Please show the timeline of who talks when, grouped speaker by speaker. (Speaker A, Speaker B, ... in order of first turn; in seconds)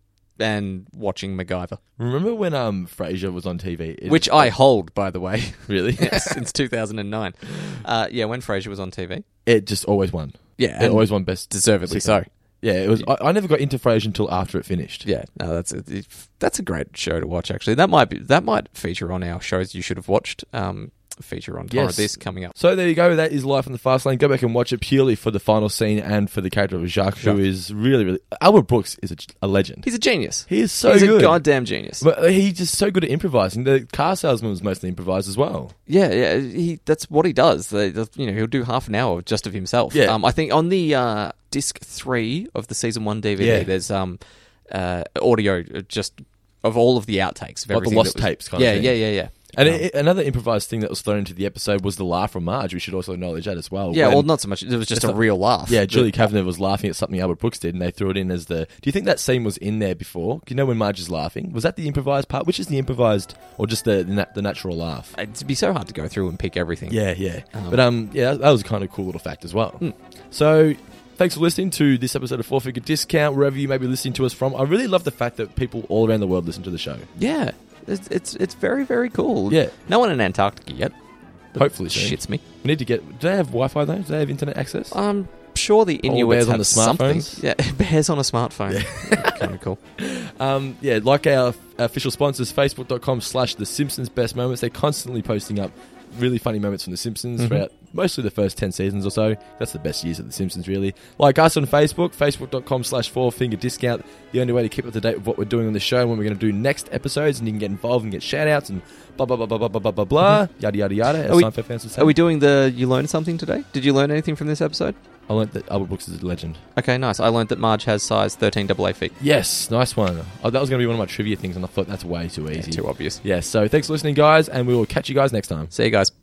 Speaker A: 0.4-1.8, 4.1-9.2, 10.6-12.3, 15.0-22.5, 29.8-32.0, 35.9-49.9, 53.9-56.3, 65.2-67.8, 77.2-80.9, 81.5-82.4, 84.9-89.8, 97.4-97.6, 111.3-115.0, 116.8-119.1, 122.5-123.2, 125.7-126.1
Speaker B: 2.0-4.5, 5.7-6.4, 9.4-15.1, 21.7-29.9, 30.5-31.4, 32.0-35.7, 39.9-40.2, 43.4-43.7, 47.7-54.3, 54.9-65.1, 66.9-77.1, 79.5-79.7, 81.5-85.0, 86.0-87.4, 88.7-112.1, 115.3-116.6, 119.2-125.7